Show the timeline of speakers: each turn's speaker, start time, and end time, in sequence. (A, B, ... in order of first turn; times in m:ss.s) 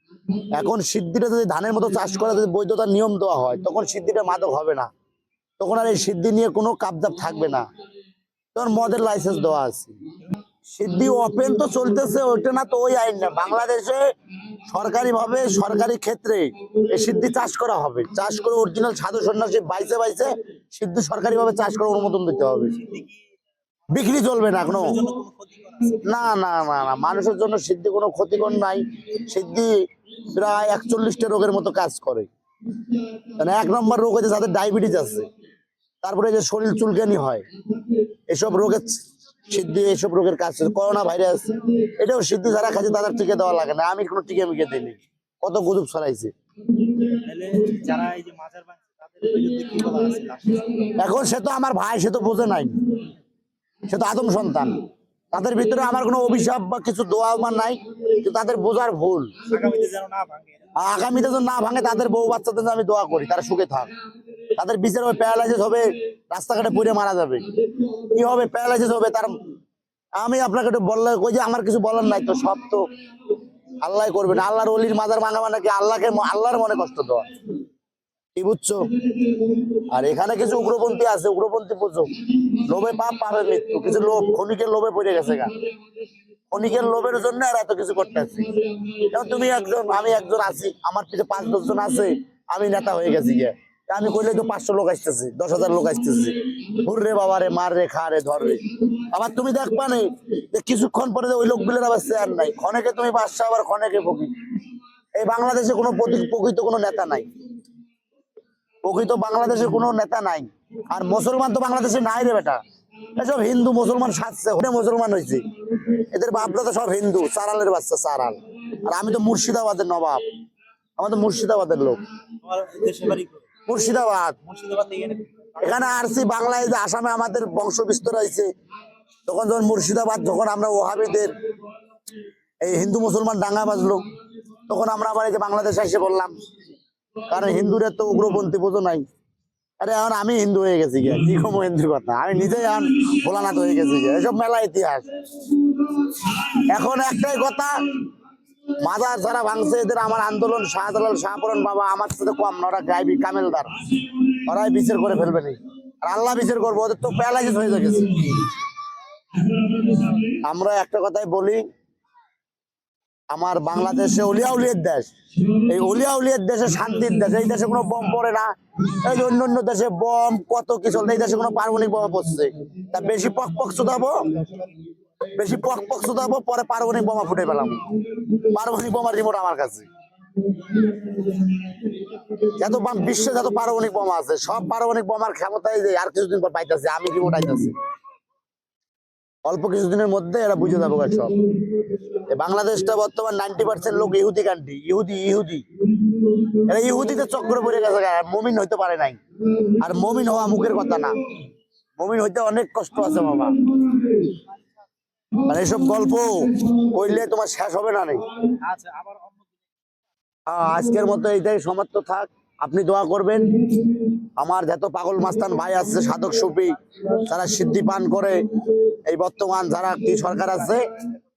0:00.5-0:04.9 A
0:05.6-0:07.6 A
0:08.5-0:09.9 A
0:10.7-0:14.1 A
0:14.6-0:22.8 A
0:22.8-0:23.2 B
0:23.9-0:25.0 A
0:24.6-0:26.0 B
0:26.0-0:32.3 A
0:33.3-0:35.3 A
0:36.0-0:37.4 A
0:38.3-0:46.3 A
0:47.0-0:50.9 B
0:50.9-0:53.0 A
0:53.9-0:59.3 A
0:59.5-1:00.7 B
1:00.8-1:03.9 A
1:04.6-1:09.4 A
1:10.2-1:12.9 A
1:13.8-1:17.3 A
1:18.4-1:18.8 A
1:19.7-1:25.5 A
1:26.5-1:44.3 A
1:45.1-1:47.3 A
1:48.8-1:52.6 A
1:53.2-2:00.2 A
2:01.0-2:02.0 A
2:02.4-2:03.5 B
2:03.7-2:04.4 A
2:04.4-2:05.8 B
2:05.6-2:08.5 A
2:09.3-2:11.3 A
2:12.6-2:14.0 A
2:14.7-2:16.4 A
2:17.3-2:19.0 A
2:19.8-2:25.1 A
2:26.2-2:28.0 A
2:28.8-2:38.5 A
2:39.5-2:41.6 A
2:43.3-2:54.5 A
2:55.4-2:59.8 A
3:02.4-3:07.7 A
3:09.4-3:11.4 A
3:12.2-3:15.7 A
3:16.3-3:19.2 A
3:19.7-3:21.2 A
3:22.0-3:24.0 A
3:25.4-3:28.3 A
3:28.6-3:29.5 B
3:30.4-3:38.4 A
3:39.0-3:40.9 A